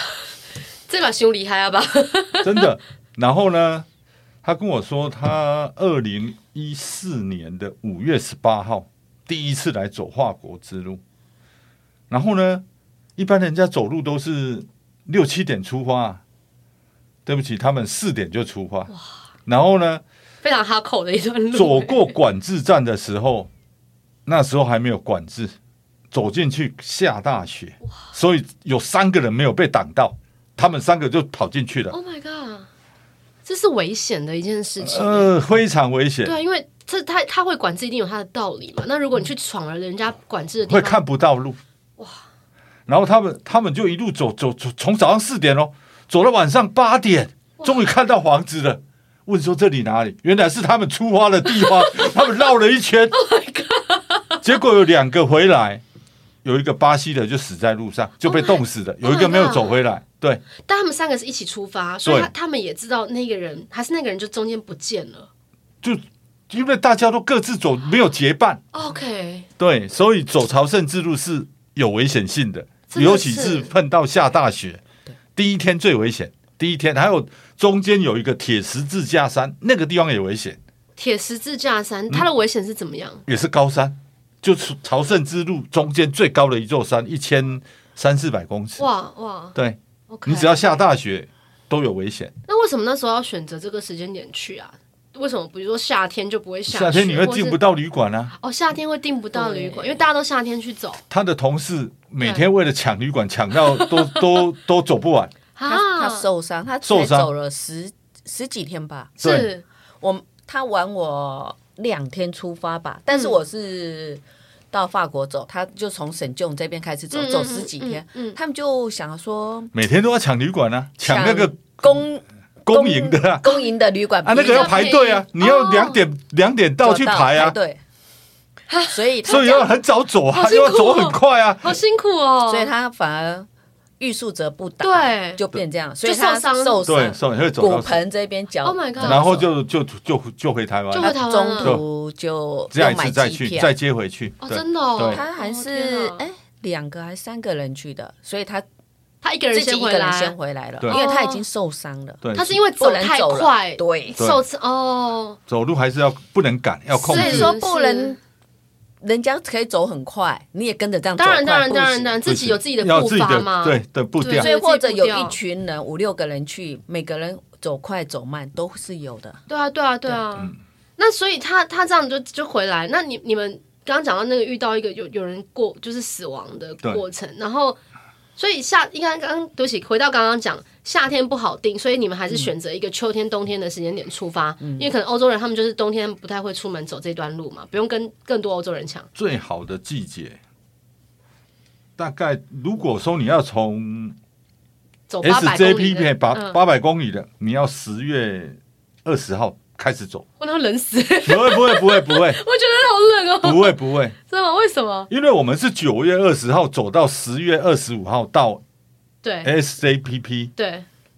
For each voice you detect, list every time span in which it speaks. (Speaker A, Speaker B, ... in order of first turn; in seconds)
Speaker A: 0.9-2.7, 20.4-22.1, 31.9-32.7, 33.4-35.3, 36.2-41.0, 47.6-47.8, 51.5-52.1, 53.1-54.4, 58.2-59.8, 60.6-65.3, 68.7-69.5, 72.9-73.7, 81.0-83.2, 88.8-89.5, 90.1-90.7, 92.5-97.6, 98.4-101.0, 103.7-104.5, 105.5-106.3, 109.2-109.6, 113.1-113.4, 117.1-118.4, 124.4-126.0, 128.7-129.7, 130.3-132.7, 134.8-135.4, 136.0-136.9, 138.6-139.3, 140.9-141.8, 144.4-146.2, 149.2-150.3, 150.9-151.4, 152.3-155.4, 157.0-158.2, 161.2-165.4, 169.5-177.8, 178.4-189.1, 195.1-196.6, 200.4-205.1, 209.2-209.5, 210.6-210.8
Speaker B: 2.4-3.9, 4.4-11.0, 12.1-12.6, 13.2-16.2, 17.2-18.9, 19.4-20.0, 21.5-23.5, 24.2-25.5, 26.1-31.9, 34.8-36.4, 40.7-41.6, 42.9-53.2, 54.4-55.8, 56.4-60.4, 62.0-62.3, 65.8-68.6, 69.6-74.8, 75.3-80.6, 83.3-88.9, 89.5-92.3, 96.7-98.3, 101.1-105.3, 106.8-107.3, 109.2-109.5, 119.7-122.0, 122.6-123.4, 124.2-127.5, 129.2-131.8, 136.8-138.0, 139.0-141.8, 142.7-145.2, 152.2-152.6, 155.5-157.5, 162.2-164.5, 189.1-190.4, 192.0-194.2, 195.2-200.2, 201.2-202.4, 203.4-204.2, 205.1-208.6, 209.4-210.5
Speaker C: 99.3-100.0, 105.7-109.2, 110.0-119.7, 121.0-125.0, 126.8-127.8, 128.9-129.7, 132.5-133.5, 134.0-139.4, 141.0-143.7, 145.1-148.6, 149.5-152.2, 152.8-154.2, 157.1-158.2, 159.0-162.2, 164.3-169.4, 184.6-184.9